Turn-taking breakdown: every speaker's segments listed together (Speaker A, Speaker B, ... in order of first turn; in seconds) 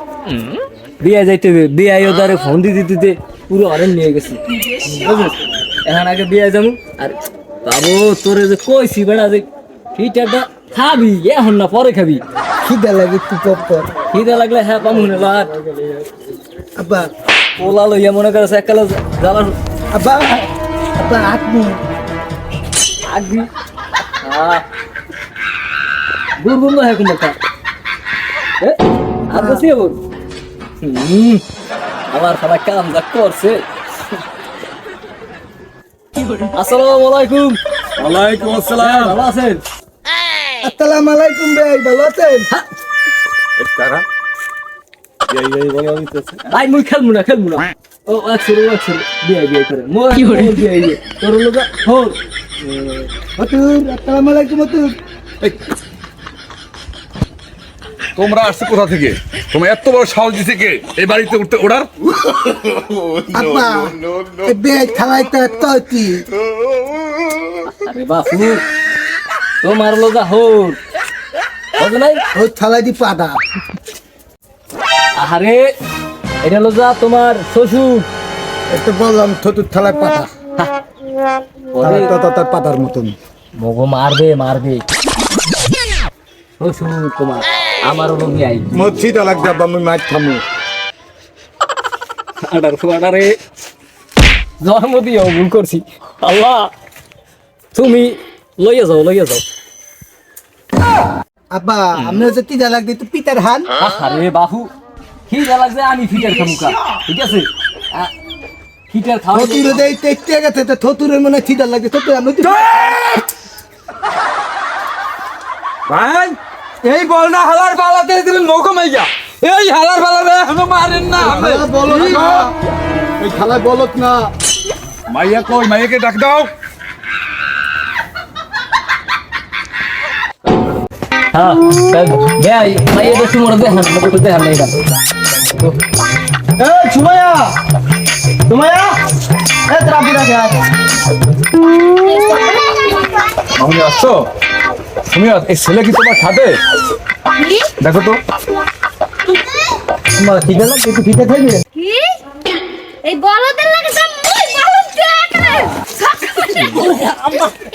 Speaker A: 1.0-12.2, 14.1-16.1, 17.6-19.6, 23.1-23.5, 24.2-24.7, 26.4-27.4, 28.6-30.0, 30.8-31.4, 32.1-33.6, 36.4-37.6, 38.2-39.6, 45.8-53.1, 67.7-68.6, 69.6-70.8, 71.8-72.2, 75.2-75.7, 76.4-78.1, 81.7-82.1, 83.6-84.8, 86.6-88.7, 92.5-93.4, 94.6-96.7, 97.7-99.4, 103.8-104.7, 105.3-108.1, 108.9-109.8, 131.3-134.8, 136.7-137.4, 138.5-138.9, 139.8-140.2, 156.4-157.5
Speaker B: 12.6-13.9, 16.8-17.1, 19.9-21.8, 29.3-29.6, 40.6-42.5, 53.4-54.9, 63.2-66.2, 72.3-73.3, 78.7-80.3, 81.8-83.2, 88.7-90.4, 101.5-103.7, 109.3-112.7, 121.2-122.5, 123.2-124.3, 150.2-151.6
Speaker C: 38.0-39.2, 43.6-44.0, 45.3-46.2, 58.2-61.9, 112.4-113.2, 115.9-122.5, 125.1-126.5, 143.5-144.3, 145.1-146.6, 147.8-148.2
Speaker D: 142.0-143.3, 147.4-147.7, 151.7-152.2, 153.0-155.9